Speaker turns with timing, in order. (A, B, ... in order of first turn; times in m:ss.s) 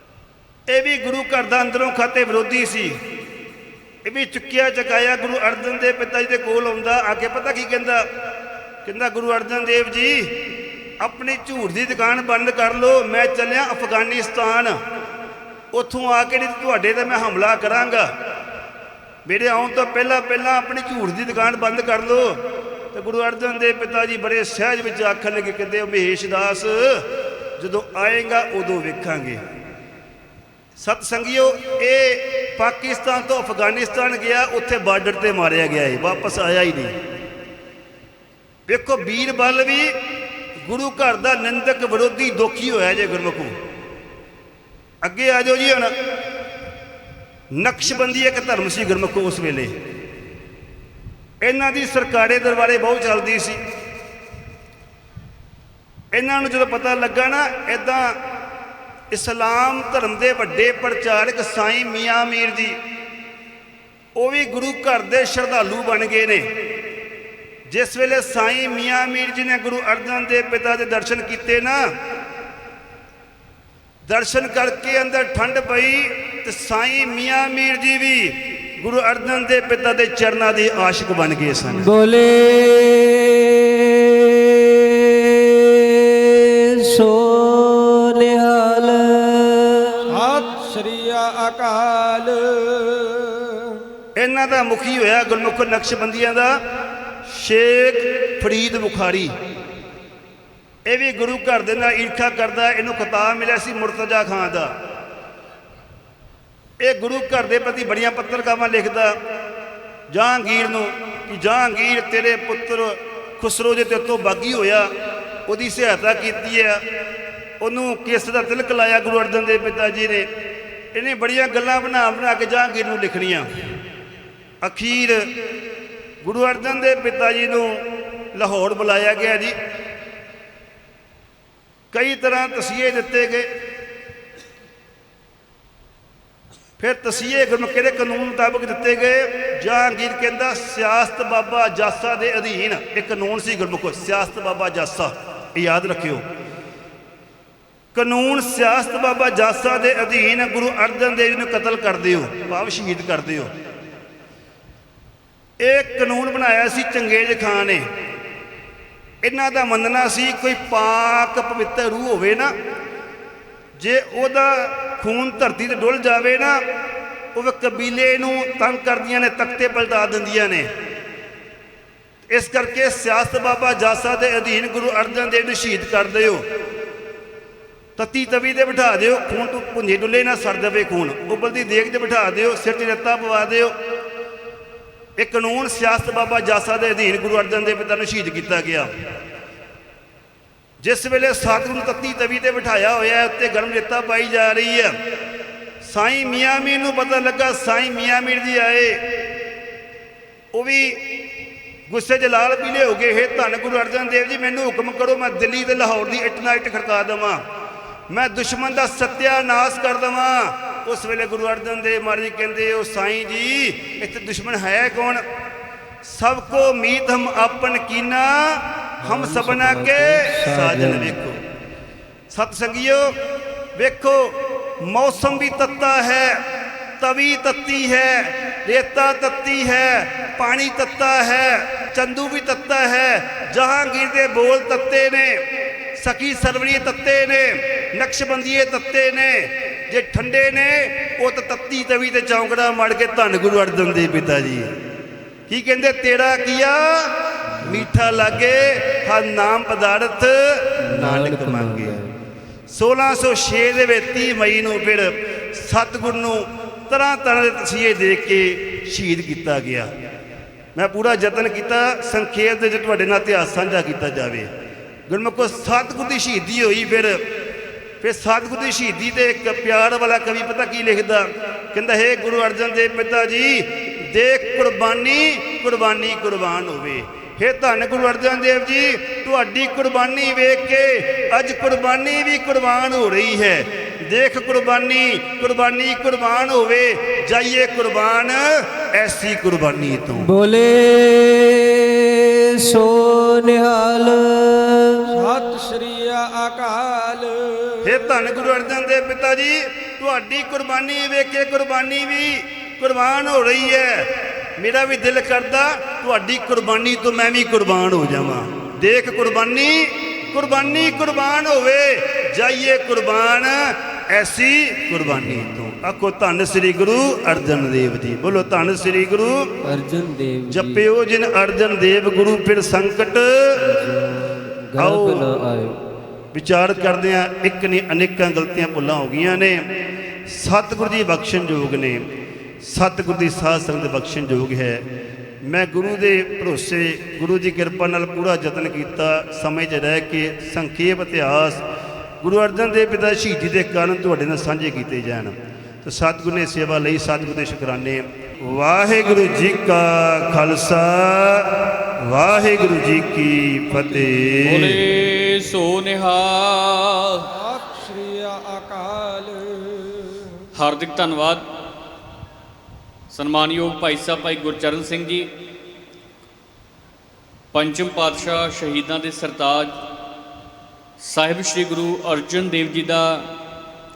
0:00.7-0:03.0 A
0:04.0-0:08.1 A
0:08.8-0:10.4 A
0:11.0-0:14.8 A
0:15.7-0:18.1 A
0:19.2-0:22.4 A
0:22.9-0:27.0 A
0:27.6-0:29.4 A
0:30.8-0:37.0 A
0:38.7-0:39.9 A
0:40.6-0:43.5 A
0:45.0-0:45.9 A
0:47.5-0:49.7 A
0:51.4-0:53.6 A
0:56.1-0:58.2 A
0:59.1-1:02.8 A
1:04.2-1:06.5 A
1:07.7-1:11.8 A
1:14.1-1:21.9 A
1:21.8-1:30.2 B
1:30.1-1:33.8 C
1:34.2-1:36.6 A
1:37.2-1:39.3 A
1:40.8-1:44.7 A
1:46.8-1:49.2 A
1:50.1-1:54.9 A
1:55.4-1:56.8 A
1:57.6-2:00.3 A
2:00.9-2:03.5 A
2:04.6-2:05.2 A
2:06.2-2:09.6 A
2:11.9-2:13.5 A
2:16.8-2:26.2 A
2:27.9-2:33.5 A
2:35.6-2:37.8 A
2:39.2-2:42.5 A
2:43.8-2:46.6 A
2:47.3-2:50.7 A
2:52.3-2:56.4 A
2:58.0-3:03.7 A
3:05.2-3:08.9 A
3:10.8-3:15.0 A
3:15.8-3:19.3 A
3:20.5-3:21.0 A
3:21.9-3:27.4 A
3:28.1-3:35.2 A
3:36.0-3:41.4 A
3:39.0-3:41.2 B
3:42.3-3:43.1 A
3:43.8-3:46.4 A
3:47.0-4:04.7 A
4:05.5-4:12.0 A
4:10.8-4:12.2 B
4:12.7-4:19.9 A
4:20.7-4:24.5 A
4:25.1-4:27.2 A
4:28.0-4:50.3 A
4:50.2-4:55.2 B
4:55.1-4:58.1 C
4:57.8-5:19.5 A
5:19.6-5:20.8 B
5:20.5-5:23.8 A
5:23.6-5:25.8 B
5:24.8-5:25.3 A
5:26.3-5:29.6 A
5:30.3-5:32.0 A
5:32.6-5:34.8 A
5:35.4-5:41.6 A
5:42.2-5:54.8 A
5:53.8-5:54.1 C
5:54.4-5:57.3 D
5:57.3-6:00.4 C
6:00.5-6:01.4 D
6:03.1-6:05.3 D
6:07.5-6:09.8 D
6:11.0-6:13.3 D